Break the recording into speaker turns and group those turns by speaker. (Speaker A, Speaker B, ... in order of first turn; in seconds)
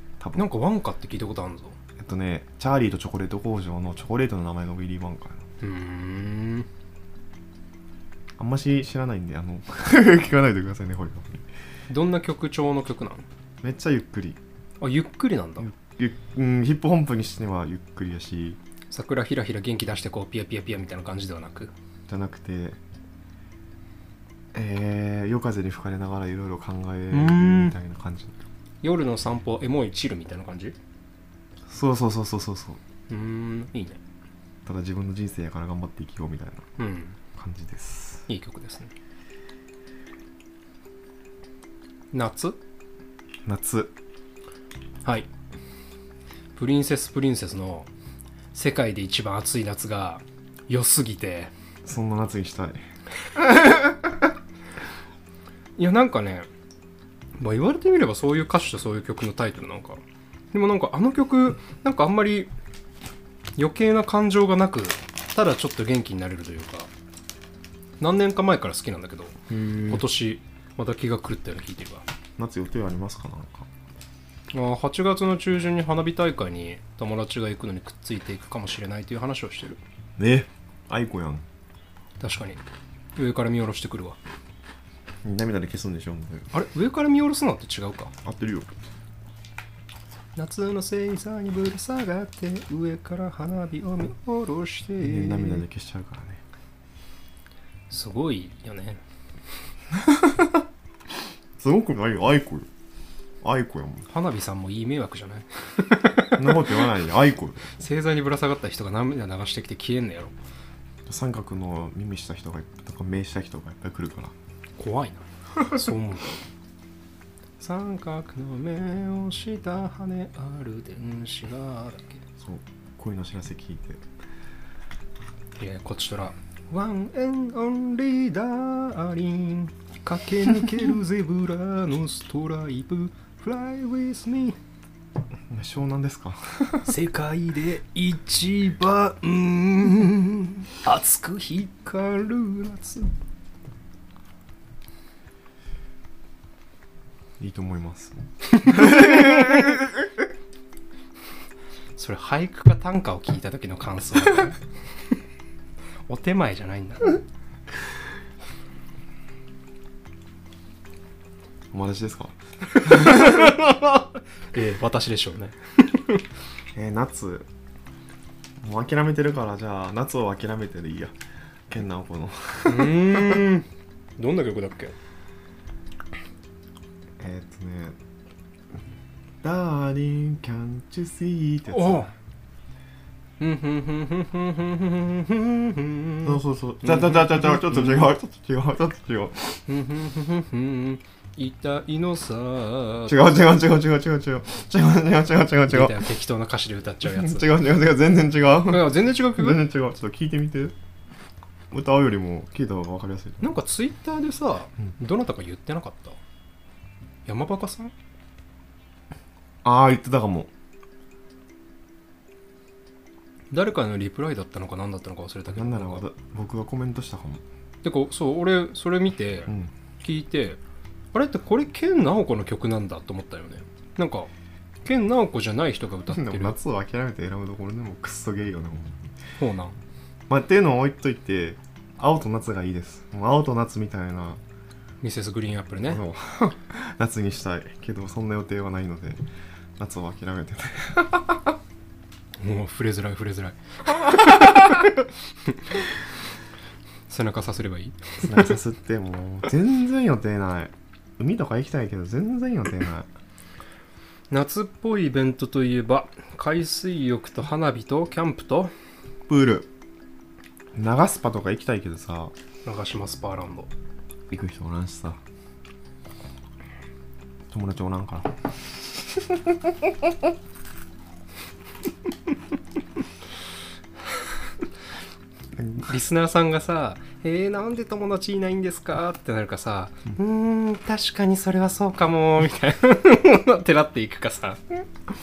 Speaker A: 0.2-0.5, 2.0-5.4, 8.4-11.4, 13.6-14.4, 15.6-18.6, 22.1-22.8, 24.5-28.4, 31.7-32.8, 34.6-36.6, 37.4-38.3, 43.5-43.9, 51.8-52.8, 53.4-54.1, 69.5-70.0, 72.4-73.7, 80.2-81.4, 85.2-86.5, 88.2-88.7, 95.0-96.4, 100.0-100.6, 101.6-102.7, 103.4-104.1, 106.3-107.7, 111.0-114.3, 122.4-124.0, 135.5-136.9, 147.4-149.8, 161.7-163.4, 166.7-167.5, 168.6-171.1, 171.7-173.5, 177.2-178.0, 179.4-182.1, 186.2-189.6, 193.1-196.0, 197.0-200.7, 201.7-203.5, 209.6-210.5, 215.5-217.4, 219.5-219.7, 226.1-229.1, 230.3-234.4, 235.8-239.2, 239.8-241.5, 248.2-253.1, 259.3-259.7, 260.7-262.3, 264.3-265.2, 267.5-269.7, 275.6-275.9
Speaker B: 0.3-1.8, 5.6-6.7, 11.9-13.2, 14.8-15.7, 18.9-21.7, 27.1-27.8, 28.8-30.8, 33.1-34.0, 36.8-37.2, 38.3-38.9, 42.1-42.6, 46.5-47.9, 48.5-51.5, 55.8-56.5, 57.4-62.5, 63.6-66.9, 68.0-72.0, 74.5-79.8, 82.2-82.6, 83.2-84.2, 86.5-88.1, 90.3-95.6, 97.9-99.0, 104.1-106.7, 107.7-110.3, 114.8-116.4, 117.6-122.2, 125.6-134.6, 136.8-143.1, 148.6-149.7, 151.9-154.6, 156.1-157.2, 162.8-166.2, 172.7-173.7, 174.2-174.9, 181.7-182.1, 183.4-188.1, 189.7-193.3, 195.7-197.5, 198.7-199.6, 203.4-206.2, 207.2-207.9, 213.5-216.1, 217.8-220.6, 221.1-224.3, 224.8-226.6, 229.4-229.8, 235.0-236.0, 242.4-244.9, 247.1-248.6, 254.3-258.7, 262.6-263.7, 275.8-284.6